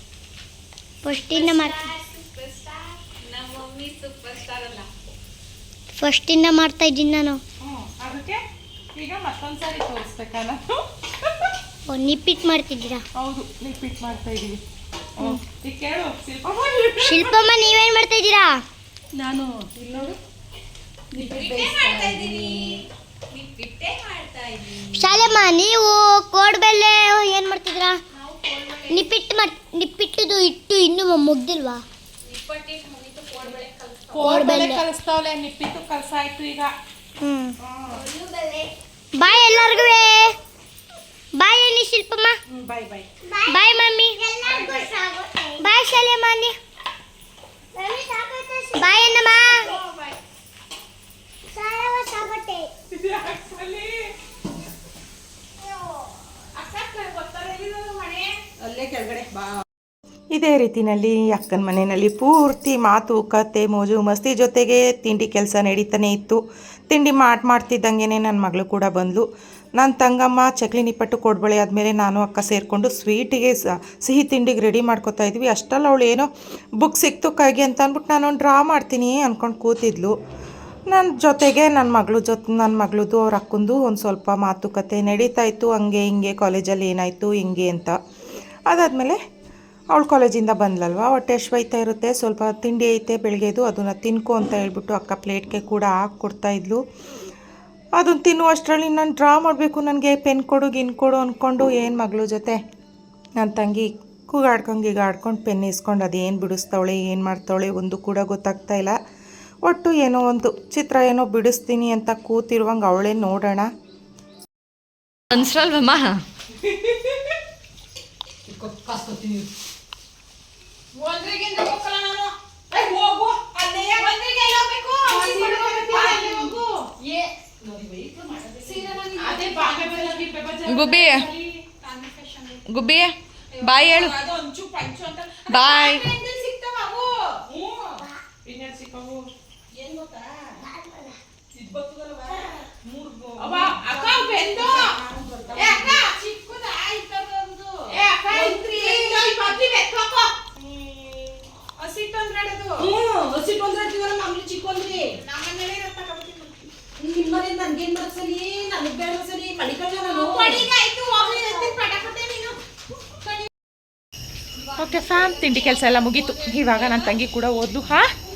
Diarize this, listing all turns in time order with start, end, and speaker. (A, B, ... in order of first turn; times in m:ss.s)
0:01.0-0:01.8 A
0:01.2-0:04.9 B
0:06.0-0:07.4 A
0:07.6-0:08.4 C
0:09.0-0:11.5 C
0:11.9-0:13.0 A
0:13.2-0:14.6 C
0:15.2-0:17.4 C
0:17.0-0:18.6 A
0:19.2-0:20.2 D
0:21.1-0:22.8 D
0:21.2-0:25.3 B
0:25.0-0:28.0 A
0:28.1-0:29.1 B
0:28.9-0:31.8 A
0:32.2-0:34.4 B
0:34.1-0:36.7 C
0:34.2-0:34.8 A
0:37.2-0:37.6 A
0:37.6-0:38.0 C
0:37.9-0:38.7 B
0:39.1-0:40.3 A
0:41.4-0:42.4 A
0:42.5-0:43.0 C
0:43.5-0:44.2 A
0:44.4-0:45.4 D
0:44.4-0:44.9 C
0:44.4-0:44.8 B
0:45.6-0:46.6 A
0:47.8-0:48.6 D
0:47.8-0:48.7 E
0:48.8-0:49.8 A
0:49.3-0:50.2 B
0:51.5-0:52.7 D
0:51.5-0:52.7 E
0:52.9-0:54.0 C
0:56.5-0:58.4 B
0:58.6-0:59.6 D
1:00.3-1:09.3 C
1:09.8-1:16.3 C
1:16.8-1:20.1 C
1:20.9-1:28.0 C
1:28.7-1:29.2 C
1:29.9-1:36.8 C
1:38.0-1:42.6 C
1:43.4-1:49.0 C
1:49.7-1:53.7 C
1:55.3-1:56.2 E
1:58.5-1:59.5 D
2:00.9-2:06.6 B
2:02.7-2:03.4 D
2:05.1-2:06.7 C
2:06.2-2:06.4 D
2:07.0-2:09.0 D
2:08.6-2:17.1 B
2:09.2-2:11.1 C
2:17.5-2:18.0 D
2:18.4-2:19.3 C
2:19.7-2:20.6 D
2:20.7-2:21.0 A
2:21.5-2:26.0 D
2:23.4-2:24.9 C
2:23.9-2:24.9 B
2:25.5-2:30.3 B
2:27.9-2:29.4 C
2:28.3-2:29.1 D
2:30.5-2:31.3 C
2:31.8-2:32.9 B
2:32.8-2:35.1 D
2:35.1-2:36.7 B
2:37.0-2:40.7 D
2:40.0-2:42.6 B
2:41.2-2:41.7 D
2:44.7-2:47.0 B
2:44.8-2:48.1 C